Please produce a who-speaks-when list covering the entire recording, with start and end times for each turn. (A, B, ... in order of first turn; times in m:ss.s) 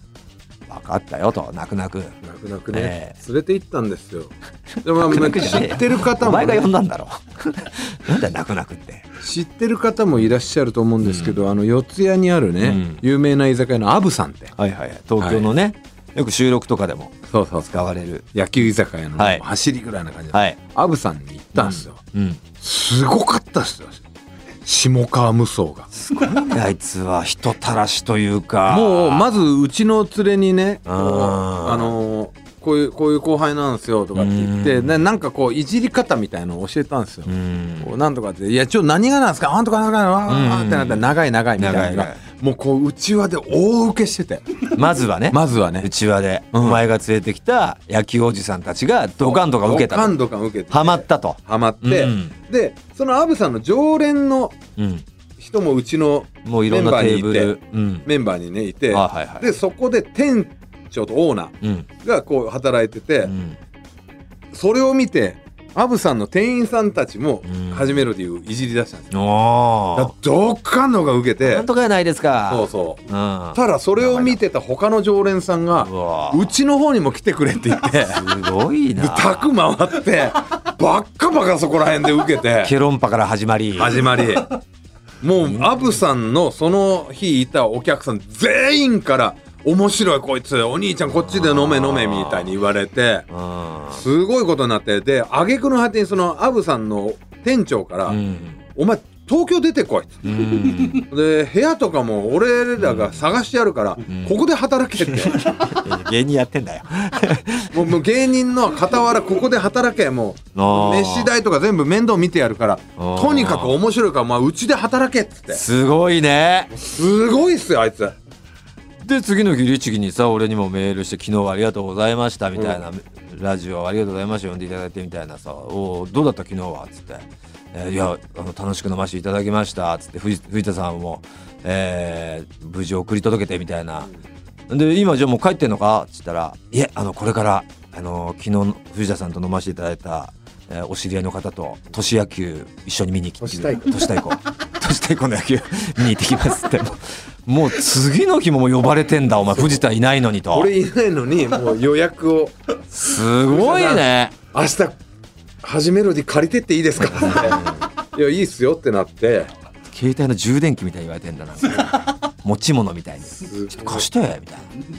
0:00.7-0:02.2 A
0:02.2-0:06.7 B
0:02.7-0:03.2 A
0:04.9-0:09.1 A
0:09.2-0:14.5 B
0:11.0-0:11.4 A
0:12.6-0:13.0 A
0:14.6-0:18.3 A
0:15.2-0:15.5 B
0:17.3-0:17.7 B
0:18.3-0:22.0 B
0:19.2-0:19.4 A
0:20.3-0:20.6 A
0:21.6-0:22.4 A
0:22.6-0:24.0 B
0:24.6-0:25.9 B
0:25.9-0:29.2 A
0:28.7-0:44.6 B
0:30.9-0:32.0 A
0:34.2-0:35.0 A
0:37.3-0:38.0 A
0:40.3-0:41.0 A
0:41.6-0:42.2 A
0:44.7-0:50.2 A
0:45.3-0:45.9 B
0:46.5-0:46.8 B
0:49.2-0:54.6 B
0:50.7-0:52.4 A
0:54.8-0:55.0 A
0:55.4-1:03.3 B
0:56.4-0:58.1 A
0:58.9-0:59.5 A
1:01.6-1:01.9 A
1:03.2-1:03.6 A
1:04.5-1:09.1 B
1:07.4-1:08.0 A
1:09.1-1:10.1 A
1:10.0-1:11.7 B
1:11.4-1:14.4 A
1:12.5-1:18.2 B
1:15.8-1:16.4 A
1:18.1-1:19.5 A
1:19.0-1:22.7 B
1:22.6-1:24.2 A
1:23.8-1:24.6 B
1:25.2-1:33.3 B
1:25.4-1:25.7 A
1:31.2-1:32.5 A
1:33.3-1:34.0 A
1:33.9-1:38.2 B
1:38.1-1:38.6 A
1:38.8-1:45.5 B
1:40.2-1:41.1 A
1:42.8-1:43.2 A
1:44.1-1:44.4 A
1:45.0-1:47.8 A
1:47.7-1:55.6 B
1:50.6-1:51.3 A
1:53.0-1:53.8 A
1:55.5-1:56.7 A
1:56.7-1:58.2 B
1:59.0-2:14.1 A
2:14.7-2:30.7 A
2:23.4-2:24.1 B
2:29.5-2:29.8 B
2:30.5-2:32.6 B
2:32.9-2:34.4 A
2:33.5-2:35.0 B
2:35.6-2:39.5 B
2:37.1-2:37.8 A
2:39.9-2:44.7 A
2:43.4-2:44.1 B